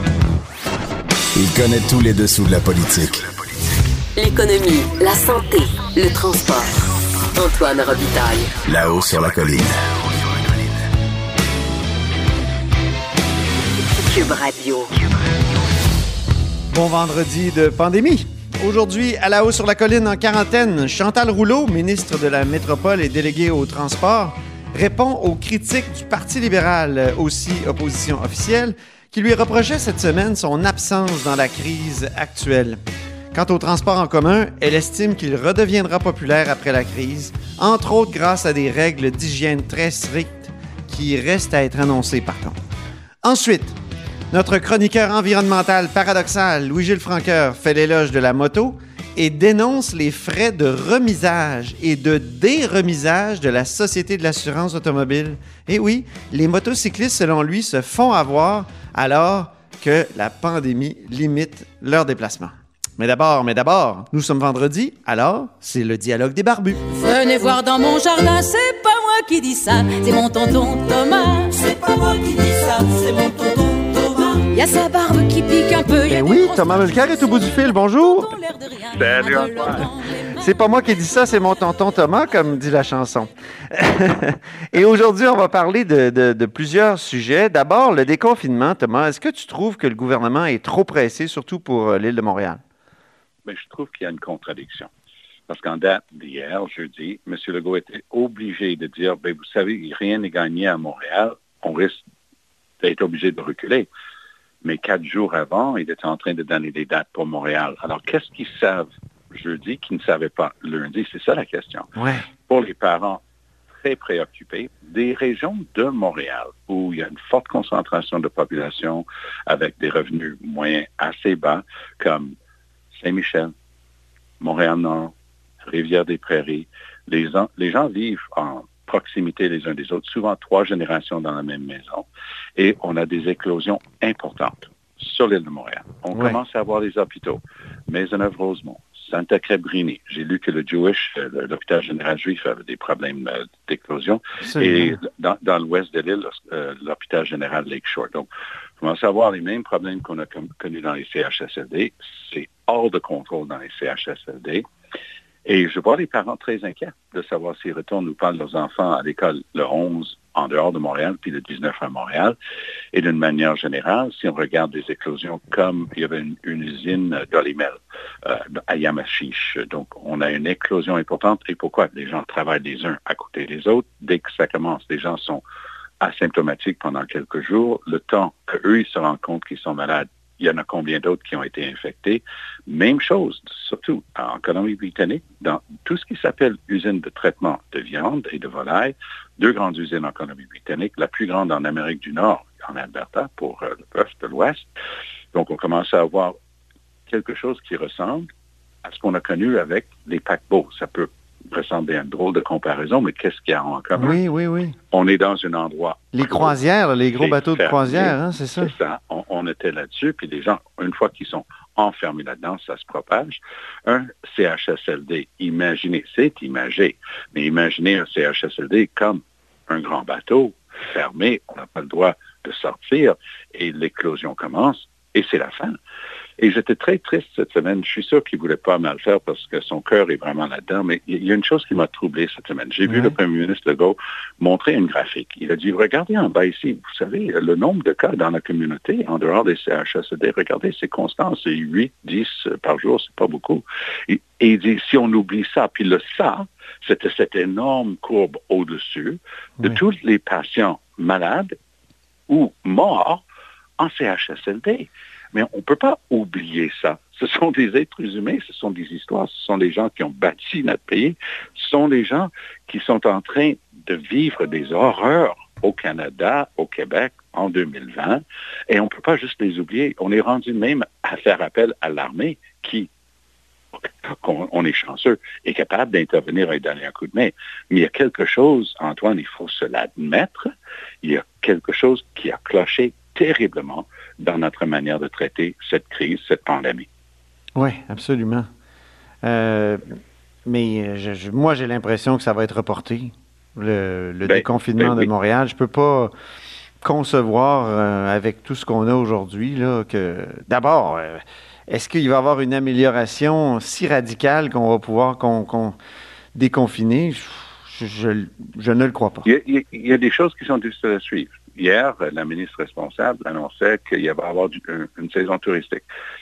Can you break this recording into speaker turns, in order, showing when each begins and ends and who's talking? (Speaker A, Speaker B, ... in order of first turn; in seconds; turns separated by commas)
Speaker A: 1.4-3.3, Speaker B: 4.2-6.8, Speaker B: 7.3-8.5, Speaker A: 8.7-9.8, Speaker B: 14.0-14.9, Speaker C: 16.7-32.8, Speaker C: 33.3-42.6, Speaker C: 43.2-43.8, Speaker C: 44.3-66.8, Speaker D: 66.9-80.5, Speaker C: 76.1-78.3, Speaker E: 78.9-79.8, Speaker C: 80.4-92.6, Speaker E: 93.5-94.9, Speaker E: 95.5-102.0, Speaker E: 102.8-103.9, Speaker E: 104.6-111.9, Speaker C: 112.0-112.3, Speaker E: 112.5-113.2, Speaker E: 113.8-122.3, Speaker E: 123.0-123.5, Speaker E: 124.4-125.1, Speaker E: 125.7-148.3, Speaker C: 136.1-136.4, Speaker C: 144.5-145.0, Speaker E: 148.8-154.7, Speaker E: 155.4-162.4, Speaker E: 162.9-175.4, Speaker E: 176.0-194.7, Speaker E: 195.3-196.4, Speaker E: 197.1-198.3, Speaker E: 198.8-204.2, Speaker C: 204.0-204.8, Speaker E: 204.9-206.6, Speaker C: 206.2-208.7, Speaker E: 207.1-225.8, Speaker E: 226.4-251.5, Speaker C: 232.9-233.2, Speaker E: 252.3-253.2, Speaker E: 253.8-272.9, Speaker E: 273.8-280.5, Speaker E: 281.0-286.9, Speaker C: 287.6-288.5, Speaker C: 289.2-296.1, Speaker E: 294.2-295.1, Speaker C: 296.8-305.8, Speaker C: 306.3-309.3, Speaker E: 309.3-315.9